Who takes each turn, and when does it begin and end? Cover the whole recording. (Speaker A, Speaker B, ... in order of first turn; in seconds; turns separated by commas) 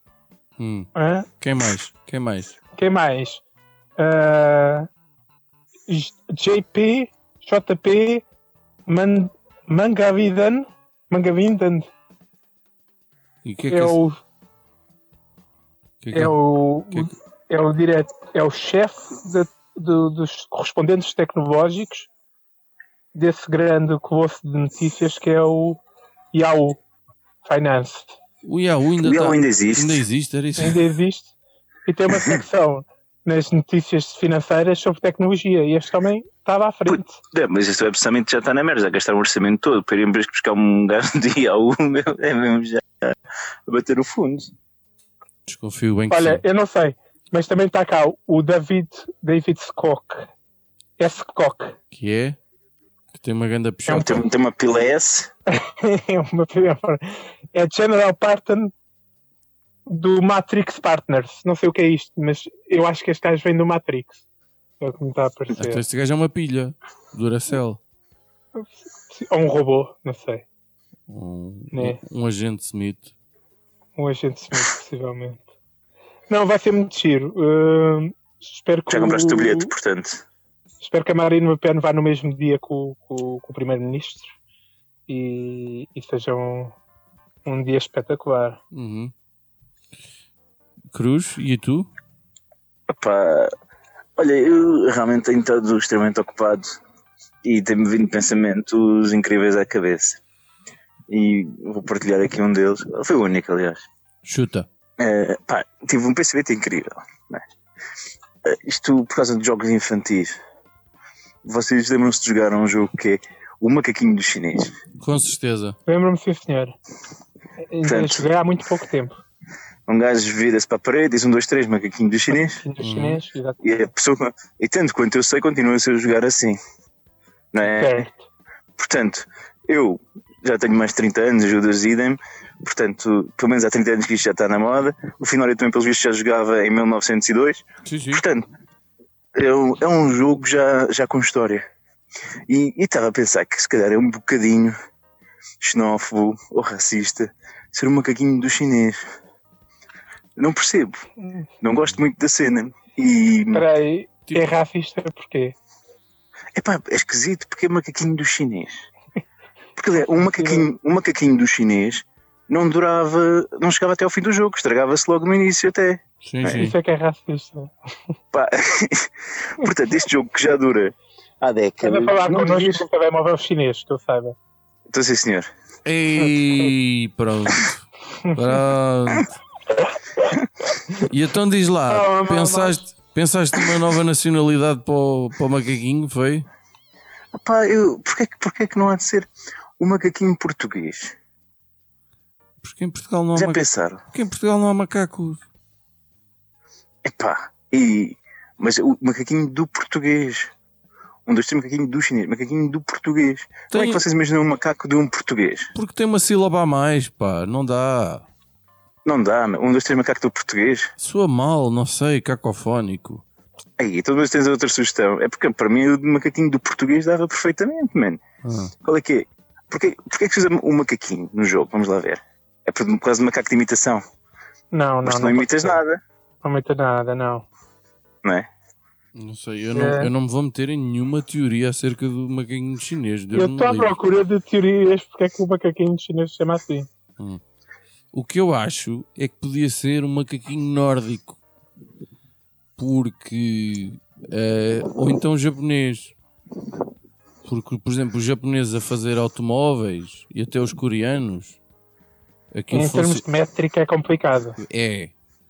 Speaker A: 0.6-2.6, Speaker B: 0.9-1.3, Speaker B: 2.8-3.4, Speaker B: 4.0-4.9, Speaker B: 5.9-8.2, Speaker B: 8.9-11.9, Speaker A: 13.4-14.0, Speaker B: 13.7-14.2, Speaker A: 16.0-16.4, Speaker B: 16.1-22.1, Speaker B: 23.1-25.8, Speaker B: 26.3-26.8, Speaker B: 27.4-28.2, Speaker A: 28.4-30.8, Speaker C: 29.0-30.1, Speaker B: 30.6-31.3, Speaker B: 31.9-37.2, Speaker C: 36.9-43.2, Speaker C: 43.7-44.5, Speaker A: 45.5-46.4, Speaker B: 46.1-50.3, Speaker B: 51.0-51.8, Speaker A: 51.9-52.4, Speaker A: 53.1-54.2, Speaker C: 53.9-55.3, Speaker B: 55.5-58.7, Speaker B: 59.9-64.2, Speaker B: 64.8-65.8, Speaker A: 65.5-67.8, Speaker B: 68.5-70.5, Speaker A: 71.1-73.1, Speaker B: 71.7-72.0, Speaker B: 74.0-75.5, Speaker B: 76.3-79.7, Speaker C: 78.9-80.2, Speaker B: 80.8-84.3, Speaker B: 85.1-86.8, Speaker B: 87.5-88.6, Speaker A: 88.7-89.1, Speaker A: 90.9-91.9, Speaker C: 92.9-93.5, Speaker C: 94.2-96.8, Speaker C: 97.4-100.2, Speaker C: 101.1-103.8, Speaker A: 104.2-104.7, Speaker C: 105.0-107.4, Speaker C: 108.4-110.4, Speaker C: 111.4-114.8, Speaker A: 115.0-115.8, Speaker B: 115.9-116.8, Speaker B: 117.7-119.2, Speaker C: 117.8-118.3, Speaker C: 119.9-122.6, Speaker B: 122.3-123.6, Speaker A: 122.8-123.2, Speaker C: 123.6-126.6, Speaker C: 127.5-128.1, Speaker B: 127.7-128.3, Speaker C: 128.8-138.5, Speaker A: 137.8-138.2, Speaker C: 139.3-141.7, Speaker C: 142.5-144.8, Speaker C: 145.6-149.0, Speaker C: 150.4-151.0, Speaker C: 151.6-153.7, Speaker B: 153.5-155.6, Speaker C: 156.6-158.9, Speaker C: 159.8-166.6, Speaker B: 160.0-160.7, Speaker A: 166.2-166.8, Speaker B: 166.5-167.7, Speaker C: 168.3-172.8, Speaker B: 171.8-174.3, Speaker C: 174.9-175.5, Speaker A: 175.8-179.4, Speaker A: 181.0-186.5, Speaker B: 181.9-182.8, Speaker C: 187.3-189.3, Speaker C: 189.8-191.2, Speaker A: 192.6-195.4, Speaker C: 193.3-194.0, Speaker C: 197.0-200.5, Speaker C: 201.2-205.7, Speaker A: 203.7-204.0, Speaker A: 205.8-208.2, Speaker C: 209.1-210.9, Speaker A: 211.0-213.2, Speaker C: 213.8-218.2, Speaker A: 218.4-218.7, Speaker C: 218.8-224.0, Speaker B: 224.7-225.8, Speaker C: 225.0-226.0, Speaker B: 226.4-227.5, Speaker C: 228.2-228.5, Speaker A: 229.2-233.9, Speaker B: 229.7-230.1, Speaker B: 233.3-236.9, Speaker A: 238.1-241.4, Speaker A: 242.8-246.1, Speaker A: 247.4-251.6, Speaker A: 252.5-253.2, Speaker B: 252.7-254.6, Speaker A: 254.6-255.1